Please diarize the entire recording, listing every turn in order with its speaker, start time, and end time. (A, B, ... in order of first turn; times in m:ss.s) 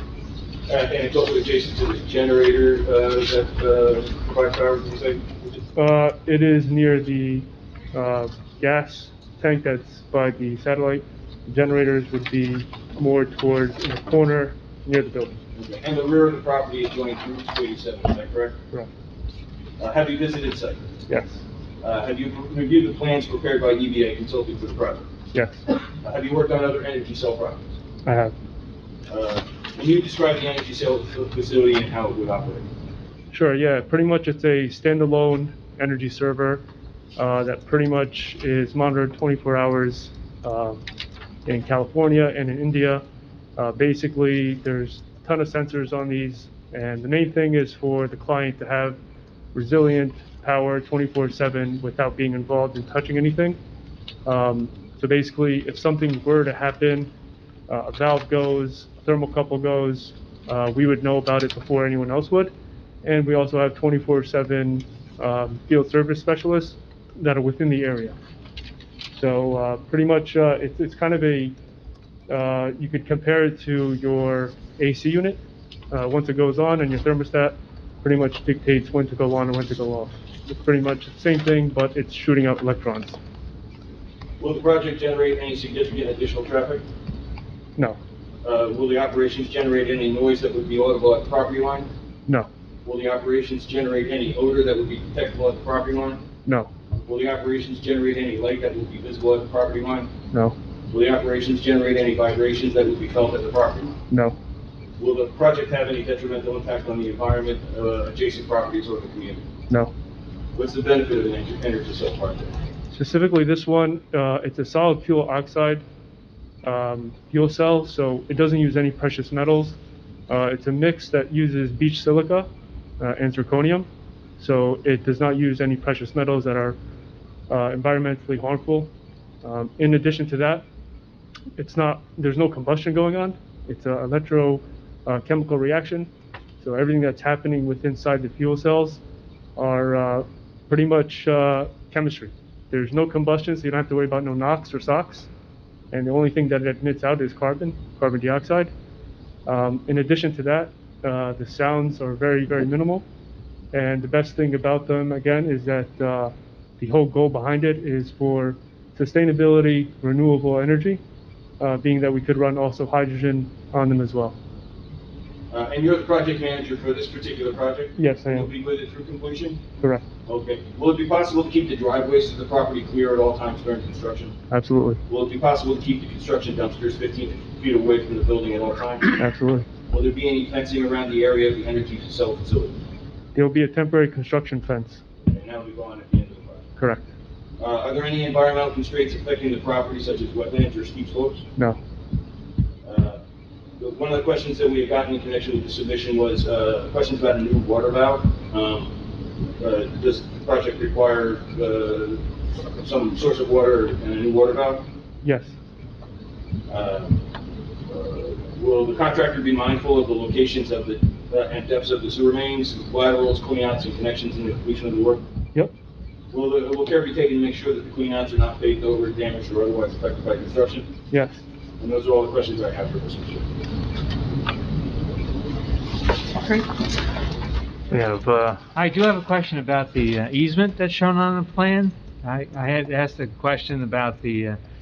0:00.7-0:05.6 A
0:05.8-0:15.4 B
0:15.6-0:18.6 A
0:19.8-0:20.9 A
0:21.1-0:21.4 B
0:21.8-0:25.1 A
0:25.3-0:25.6 B
0:26.0-0:27.7 A
0:28.0-0:28.3 B
0:29.1-0:32.7 A
0:33.3-0:36.6 B
0:37.2-0:40.8 B
0:41.5-0:43.0 B
0:43.6-0:49.0 B
0:49.5-0:53.6 B
0:54.3-0:57.1 B
0:57.7-1:02.5 B
1:03.0-1:08.2 B
1:09.2-1:11.6 B
1:12.3-1:15.4 B
1:15.9-1:23.2 B
1:24.4-1:26.8 A
1:28.4-1:31.9 A
1:32.8-1:36.2 A
1:37.0-1:40.1 A
1:40.9-1:44.0 A
1:44.1-1:44.4 B
1:45.0-1:49.4 A
1:50.6-1:52.5 A
1:52.9-1:55.8 B
1:56.6-1:59.8 B
2:00.3-2:02.5 B
2:03.0-2:06.8 B
2:07.5-2:08.9 B
2:09.4-2:10.6 B
2:11.6-2:19.0 B
2:19.6-2:25.3 B
2:25.9-2:28.7 B
2:29.5-2:33.0 B
2:33.7-2:41.0 B
2:41.6-2:44.4 B
2:45.5-2:49.6 A
2:48.0-2:48.5 B
2:50.3-2:54.4 A
2:54.5-2:55.0 B
2:55.1-2:59.2 A
2:59.2-2:59.7 B
2:59.9-3:02.8 A
3:03.4-3:05.0 B
3:05.3-3:06.7 A
3:06.8-3:07.1 B
3:07.6-3:11.4 A
3:12.8-3:13.2 A
3:13.8-3:18.9 A
3:19.6-3:22.2 A
3:22.8-3:24.9 A
3:25.2-3:25.5 B
3:26.7-3:27.2 A
3:27.9-3:35.2 A
3:36.3-3:40.9 A
3:41.1-3:41.4 B
3:41.8-3:43.5 A
3:47.9-3:54.6 C